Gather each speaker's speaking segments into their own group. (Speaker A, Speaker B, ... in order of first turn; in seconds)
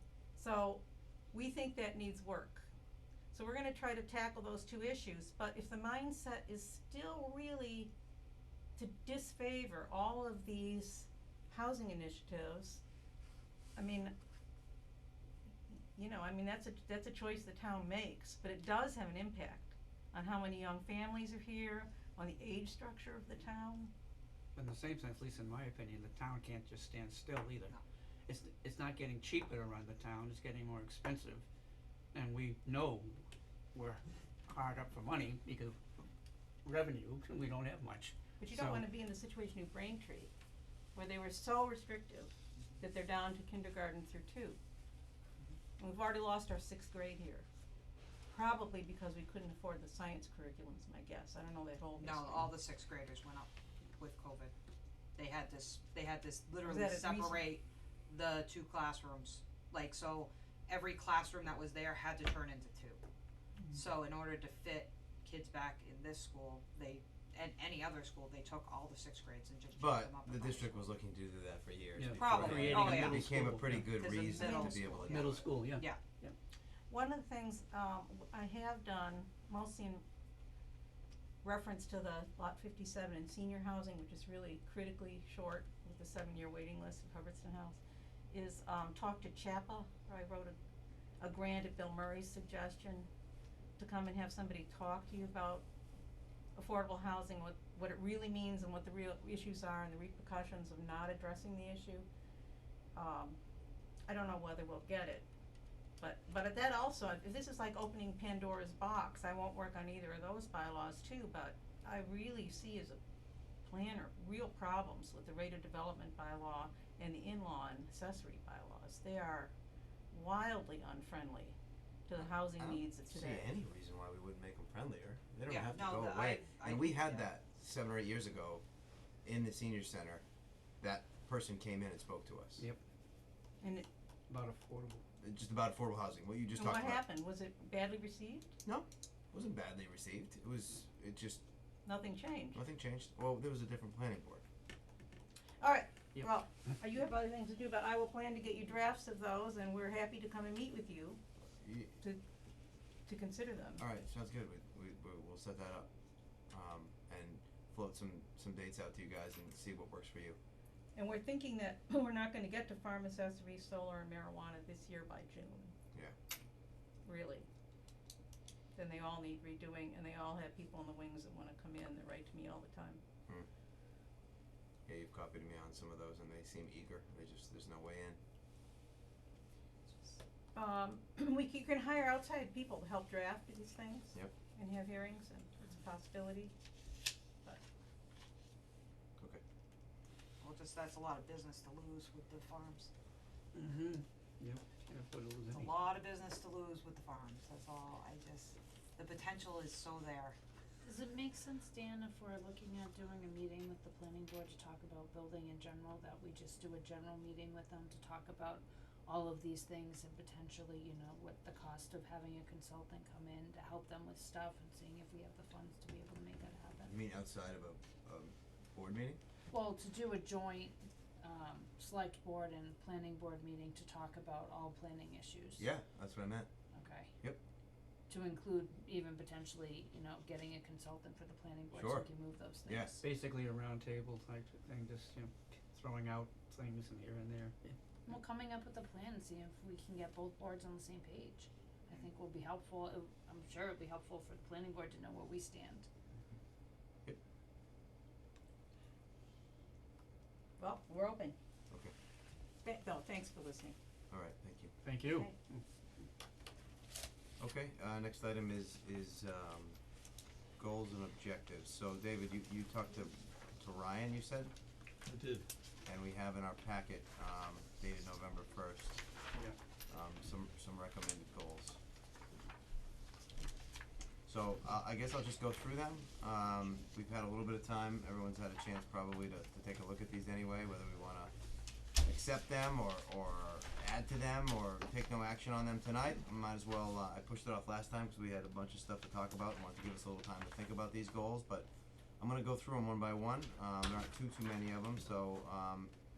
Speaker A: 0.3-2.7, 3.3-7.9, 8.8-12.8, 13.8-14.1, 15.9-23.9, 38.4-40.3, 40.9-44.6, 45.8-47.5, 48.3-52.5, 56.6-57.4, 74.2-74.9, 76.9-80.0, 81.4-90.6, 91.2-93.1, 93.8-95.7, 96.5-102.1, 102.9-103.4, 104.1-105.3, 106.0-113.0, 113.6-119.5, 120.1-121.6, 122.1-123.5, 133.6-133.9, 136.6-138.6, 141.8-142.6, 145.6-151.2, 153.1-153.8, 160.9-165.7, 167.0-167.5, 168.7-173.0, 180.5-186.5, 250.6-251.3, 252.6-253.8
Speaker B: 24.6-27.8, 28.3-31.4, 32.1-33.2, 33.7-35.8, 36.6-38.9, 72.0-73.9, 75.0-76.3, 134.3-135.0, 193.5-195.7, 233.0-237.7, 254.8-255.6
Speaker C: 52.0-54.5, 55.2-63.0, 63.7-70.9, 72.1-76.0, 125.5-127.3, 179.9-180.2, 190.4-192.9, 195.5-200.3
Speaker D: 69.8-75.5, 122.6-128.6, 129.2-130.2, 130.8-132.6, 135.2-137.0, 138.6-141.4, 142.5-144.4, 151.6-151.9, 153.8-155.9, 156.5-160.4, 174.9-178.2, 216.8-219.2, 225.6-226.5, 231.7-232.1, 232.6-232.9, 254.1-254.7, 257.4-259.8, 260.6-264.5, 265.8-269.0, 269.9-271.8, 274.3-281.3, 282.0-295.9
Speaker E: 200.8-216.9, 219.5-225.7, 226.7-227.1, 228.1-233.0, 238.1-245.9